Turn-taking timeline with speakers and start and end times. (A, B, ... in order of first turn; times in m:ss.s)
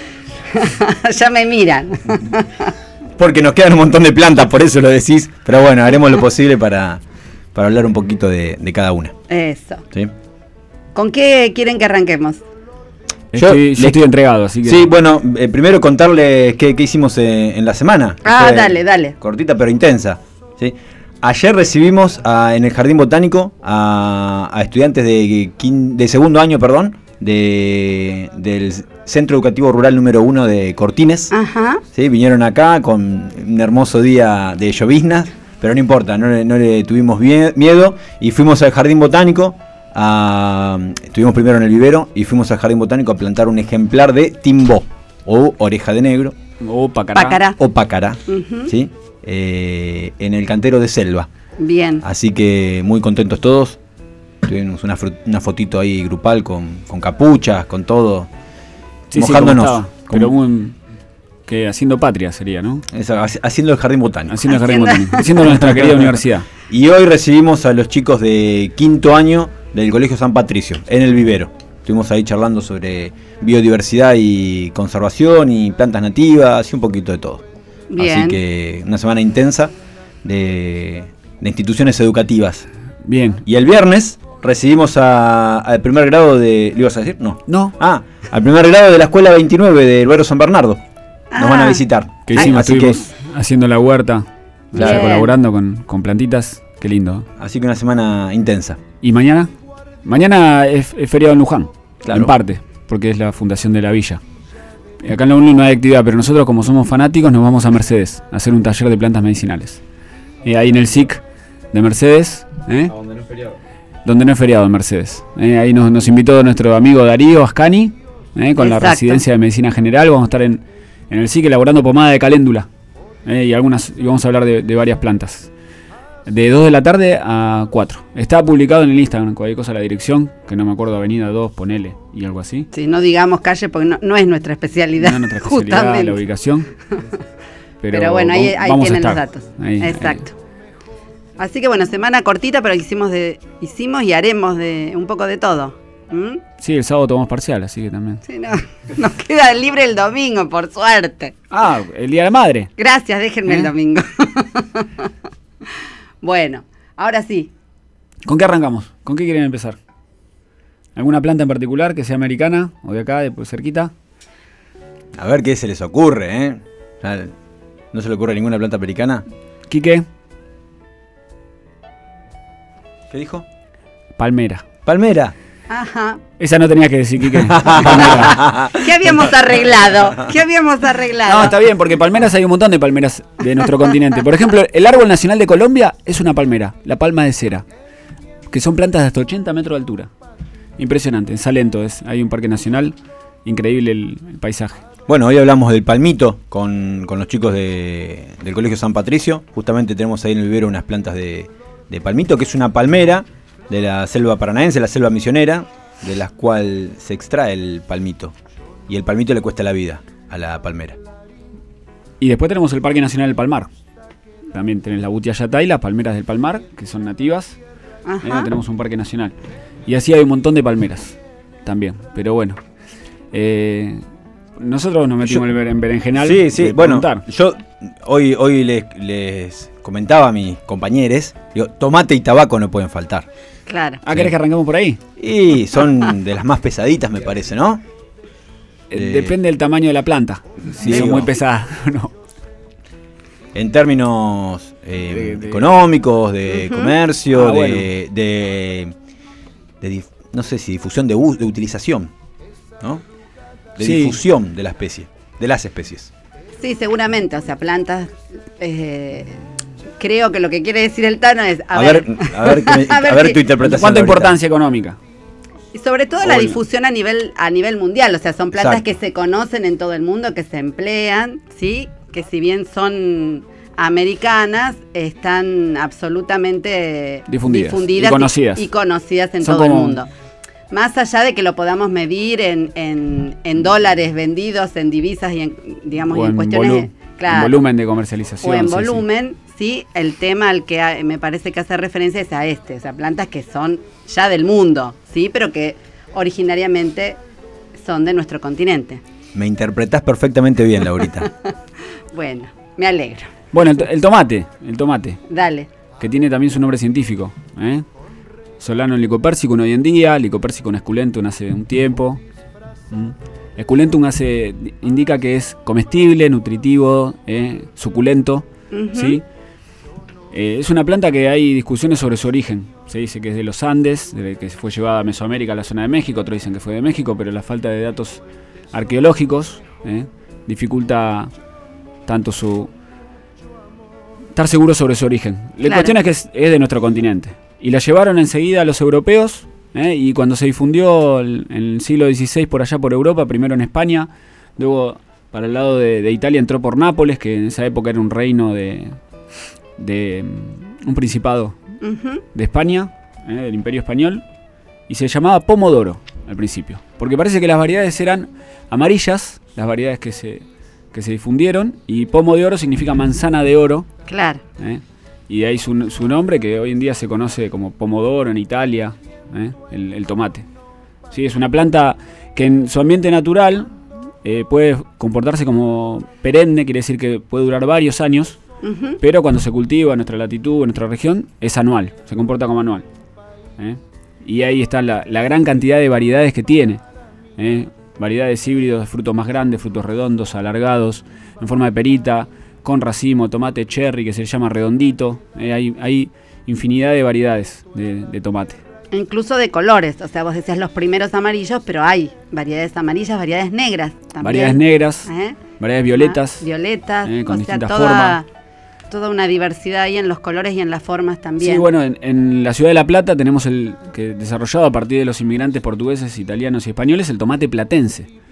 0:00.5-0:02.7 A
0:03.2-0:07.0 B
0:07.5-0:09.1 B
0:09.3-0:09.8 A
0:10.9-0:12.4 A
0:13.3-0:14.9 C
0:13.4-0:14.0 B
0:14.6-0:31.3 B
0:18.2-0:19.1 A
0:31.3-0:31.8 A
0:31.9-0:46.3 B
0:46.6-0:47.4 C
0:47.1-0:47.6 A
0:47.6-0:51.3 B
0:48.3-0:48.7 A
0:51.6-0:52.0 A
0:52.0-0:53.8 B
0:54.4-0:58.3 B
0:59.1-1:00.8 C
0:59.1-1:00.3 B
1:01.4-1:02.8 C
1:02.9-1:04.5 B
1:04.3-1:06.5 C
1:04.6-1:05.2 A
1:05.4-1:06.2 B
1:06.7-1:17.4 B
1:17.9-1:18.4 A
1:18.0-1:19.7 B
1:20.2-1:22.7 B
1:23.0-1:23.4 C
1:23.4-1:30.8 B
1:27.5-1:27.7 C
1:31.3-1:31.8 A
1:31.3-1:33.0 B
1:32.2-1:37.3 C
1:34.7-1:35.3 A
1:37.4-1:38.8 B
1:39.0-1:39.5 C
1:40.0-1:44.2 C
1:42.0-1:42.3 B
1:45.0-1:49.8 C
1:50.4-1:53.0 C
1:54.0-2:02.7 C
1:58.6-1:59.2 A
2:03.2-2:05.5 C
2:06.2-2:12.7 C
2:12.7-2:16.2 A
2:15.0-2:16.7 C
2:17.8-2:20.2 C
2:17.9-2:20.3 A
2:21.4-2:26.4 A
2:26.6-2:28.2 C
2:28.3-2:31.3 A
2:31.5-2:32.7 C
2:32.8-2:34.9 A
2:36.2-2:37.5 A
2:38.3-2:39.8 C
2:41.0-2:43.9 C
2:45.1-2:47.3 B
2:47.9-2:49.2 B
2:49.7-2:50.0 C
2:53.1-2:53.4 B
2:54.2-2:54.6 C
2:54.8-2:55.3 B
2:55.7-2:56.2 A
2:56.4-2:58.4 C
2:57.4-2:59.4 B
2:58.0-3:01.5 A
3:01.3-3:07.6 C
3:08.5-3:10.1 C
3:10.8-3:14.8 C
3:15.1-3:28.3 B
3:28.9-3:31.0 B
3:32.2-3:33.7 C
3:34.5-3:37.6 C
3:38.0-3:38.5 A
3:38.2-3:39.3 C
3:39.8-3:42.6 C
3:43.3-3:44.0 C
3:44.6-3:47.2 C
3:46.2-3:53.3 B
3:53.7-3:54.0 A
3:54.0-3:55.0 C
3:55.2-3:57.8 B
3:58.9-4:02.1 C
3:58.9-3:59.4 B
4:00.8-4:01.3 B
4:03.5-4:08.9 B
4:05.1-4:05.6 C
4:06.5-4:06.9 A
4:07.3-4:07.9 C
4:09.8-4:12.1 B
4:13.8-4:16.1 B
4:13.8-4:14.2 C
4:16.6-4:19.4 A
4:20.0-4:23.4 A
4:21.7-4:24.4 B
4:23.6-4:25.0 C
4:25.7-4:40.1 A
4:26.3-4:26.6 C
4:28.5-4:28.8 B
4:37.3-4:38.6 C
4:39.4-4:40.0 C
4:40.7-4:47.6 A
4:46.1-4:49.0 C
4:48.4-4:57.2 A
4:57.8-4:59.0 A
4:59.3-5:01.3 B
5:02.1-5:03.3 A
5:03.5-5:05.2 C
5:05.3-5:05.7 A
5:06.0-5:07.8 C
5:08.6-5:12.2 C
5:12.9-5:19.2 C
5:18.7-5:19.2 A
5:20.3-5:31.3 C
5:32.0-5:32.7 C
5:34.3-5:49.0 C
5:35.6-5:35.9 A
5:49.8-5:51.6 C
5:51.8-5:52.2 A
5:52.3-5:54.2 C
5:54.9-6:03.9 C
6:04.1-6:04.4 A
6:04.6-6:10.4 C
6:11.1-6:18.4 C
6:18.6-6:19.0 A
6:19.0-6:22.8 C
6:23.6-6:26.8 C
6:27.4-6:38.6 C
6:38.9-6:45.4 A
6:44.2-6:45.1 C
6:45.6-6:46.4 C
6:45.9-6:48.2 A
6:47.0-6:48.2 C
6:48.9-6:51.6 A
6:51.4-6:58.1 C